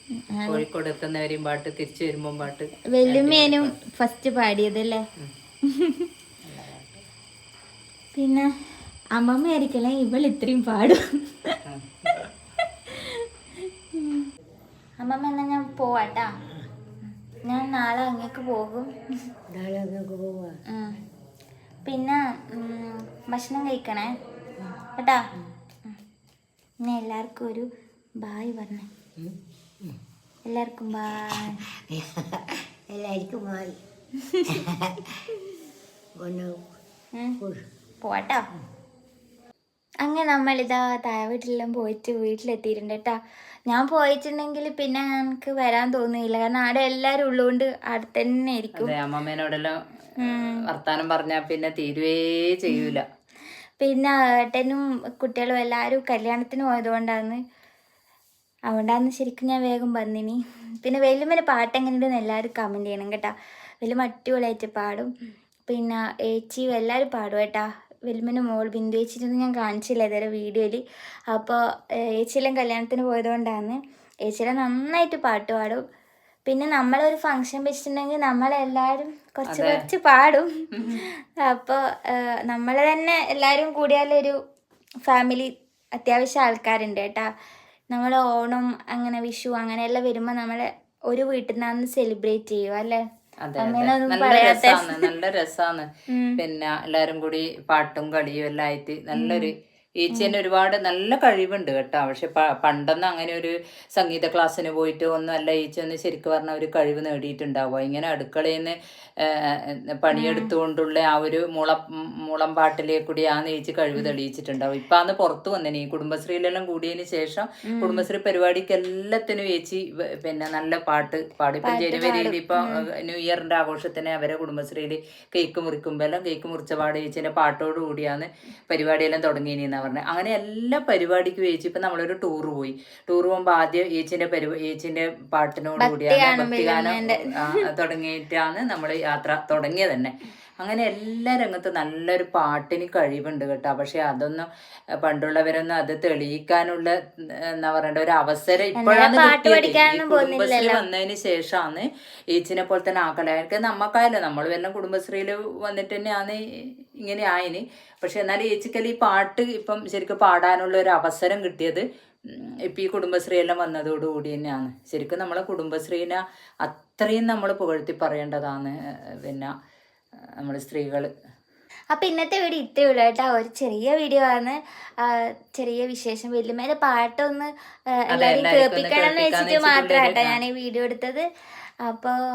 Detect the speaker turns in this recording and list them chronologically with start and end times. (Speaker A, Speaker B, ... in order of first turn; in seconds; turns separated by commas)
Speaker A: 0.3-0.6, Speaker B: 0.5-3.8, Speaker A: 2.9-5.0, Speaker A: 5.7-6.1, Speaker B: 6.4-7.0, Speaker A: 8.1-8.5, Speaker A: 9.1-11.6, Speaker B: 11.7-12.2, Speaker A: 12.9-13.2, Speaker A: 13.9-14.2, Speaker A: 15.0-16.3, Speaker A: 17.3-18.9, Speaker C: 19.5-20.6, Speaker A: 21.8-24.1, Speaker A: 24.8-25.2, Speaker A: 26.8-27.6, Speaker A: 28.2-28.9, Speaker C: 29.2-30.0, Speaker A: 30.5-31.6, Speaker C: 31.3-33.8, Speaker A: 34.2-34.6, Speaker C: 34.5-35.1, Speaker C: 36.2-36.6, Speaker A: 38.0-38.4, Speaker A: 40.0-43.2, Speaker A: 43.7-48.9, Speaker B: 48.8-53.0, Speaker A: 50.2-50.6, Speaker A: 53.8-57.4, Speaker A: 58.7-65.1, Speaker A: 65.7-71.6, Speaker A: 72.1-75.8, Speaker A: 76.4-80.5, Speaker B: 79.5-79.8, Speaker A: 81.4-84.3, Speaker A: 85.1-87.3, Speaker A: 87.9-93.0, Speaker B: 93.4-144.5, Speaker A: 93.6-95.1, Speaker A: 96.1-96.4, Speaker A: 99.1-99.5, Speaker A: 110.1-110.5, Speaker A: 117.6-118.0, Speaker A: 121.6-122.8, Speaker A: 135.8-137.6, Speaker B: 145.0-146.9, Speaker B: 147.6-156.4, Speaker A: 148.8-150.8, Speaker B: 157.0-169.5, Speaker B: 170.4-171.1, Speaker A: 171.9-181.2, Speaker B: 178.1-180.4, Speaker A: 181.9-182.2